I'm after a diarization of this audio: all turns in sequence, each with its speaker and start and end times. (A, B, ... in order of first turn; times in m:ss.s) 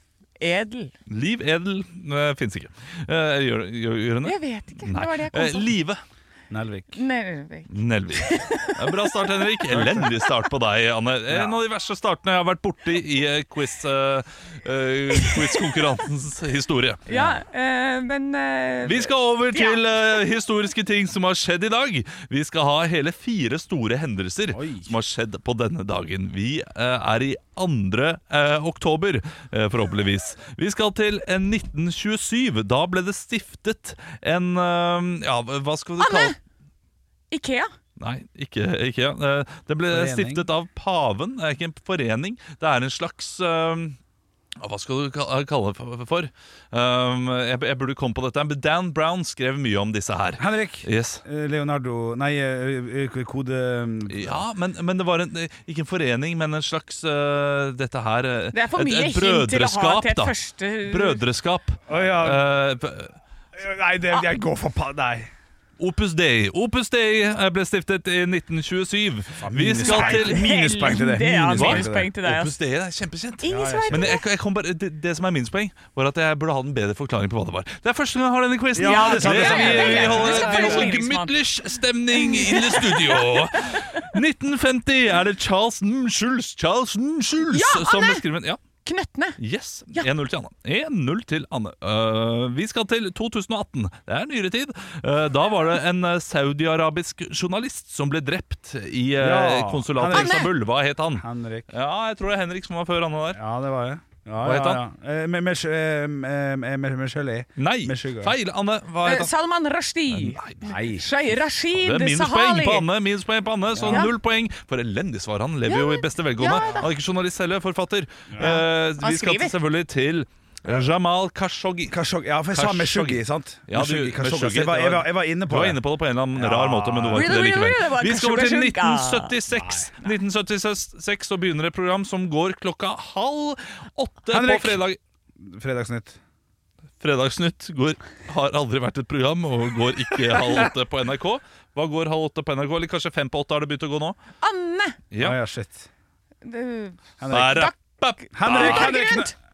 0:00.4-0:00.9 A
0:01.1-0:06.0 B
0:04.2-0:05.7 A
0:06.5-0:07.0 C
0:06.9-0:09.0 A
0:07.7-0:17.1 B
0:09.7-0:10.1 C
0:11.3-0:11.6 C
0:17.1-0:17.3 C
0:17.1-0:19.8 A
0:18.8-0:36.4 B
0:24.5-0:24.9 C
0:36.0-0:36.3 A
0:37.3-0:37.7 A
0:38.0-0:44.0 B
0:39.9-0:40.4 C
0:44.6-0:51.2 B
0:50.4-0:54.4 C
0:54.1-1:03.1 B
0:58.5-1:01.2 A
1:01.9-1:02.4 C
1:03.5-1:05.3 C
1:05.8-1:10.5 B
1:09.4-1:12.1 C
1:09.8-1:12.5 A
1:11.5-1:28.6 B
1:13.4-1:14.2 A
1:13.4-1:14.2 C
1:18.7-1:21.0 C
1:18.8-1:21.3 A
1:22.1-1:23.8 A
1:27.5-1:28.2 A
1:28.8-1:29.4 A
1:29.4-1:43.4 B
1:39.2-1:40.5 C
1:40.0-1:40.5 A
1:41.2-1:41.7 C
1:43.3-1:48.3 C
1:44.4-1:44.8 B
1:47.6-1:49.3 B
1:49.0-1:52.9 A
1:50.1-1:50.8 B
1:50.6-1:51.3 C
1:51.7-2:02.0 B
1:53.7-1:54.1 C
1:53.8-1:54.1 A
1:55.7-1:56.9 A
1:58.3-1:58.6 C
1:58.4-1:59.5 A
2:01.9-2:05.8 C
2:02.5-2:15.0 B
2:06.3-2:07.4 C
2:07.1-2:09.3 A
2:09.5-2:09.9 C
2:14.3-2:14.8 C
2:15.4-2:16.2 C
2:17.0-2:24.2 B
2:24.4-2:25.0 A
2:25.1-2:25.4 B
2:25.2-2:25.9 C
2:26.4-2:27.7 A
2:27.2-2:27.7 C
2:27.3-2:29.2 B
2:28.3-2:29.3 C
2:28.4-2:29.3 A